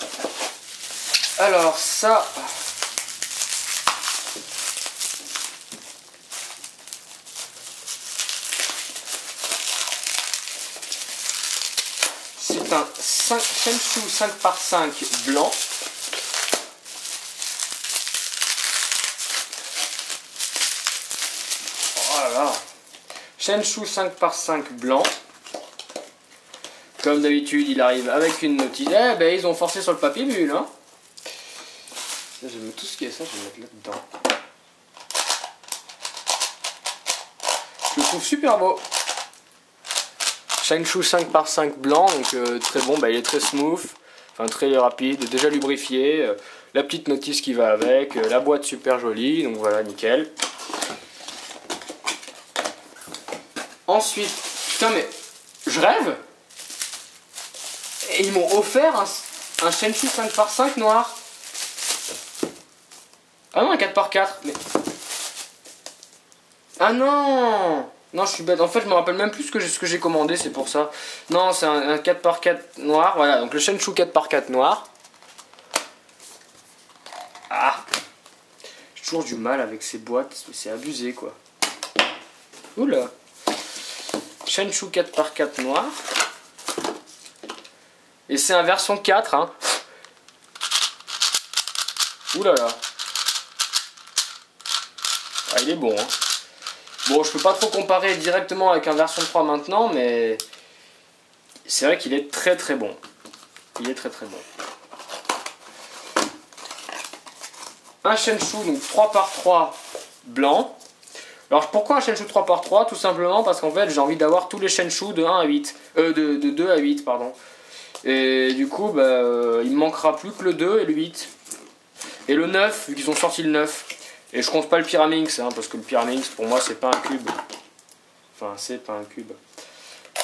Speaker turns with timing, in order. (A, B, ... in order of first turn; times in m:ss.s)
0:01.4-0:02.6 A
0:12.3-0:15.6 A
0:21.9-0:22.6 A
0:23.4-0:25.1 A
0:27.0-0:30.7 A
0:32.4-0:34.0 A
0:37.9-0:38.8 A
0:40.6-0:50.3 A
0:53.9-0:55.1 A
0:55.6-0:56.2 A
0:58.0-1:01.2 A
1:03.5-1:04.6 A
1:06.8-1:14.9 A
1:17.5-1:17.8 A
1:18.9-1:21.4 A
1:22.7-1:23.1 A
1:24.4-1:26.0 A
1:28.3-1:29.6 A
1:32.3-1:32.8 A
1:35.5-1:36.1 A
1:37.0-1:40.4 A
1:41.6-1:43.0 A
1:43.8-1:44.4 A
1:48.0-1:50.8 A
1:51.5-1:57.4 A
1:58.0-2:01.3 A
2:02.3-2:07.4 A
2:08.3-2:09.4 A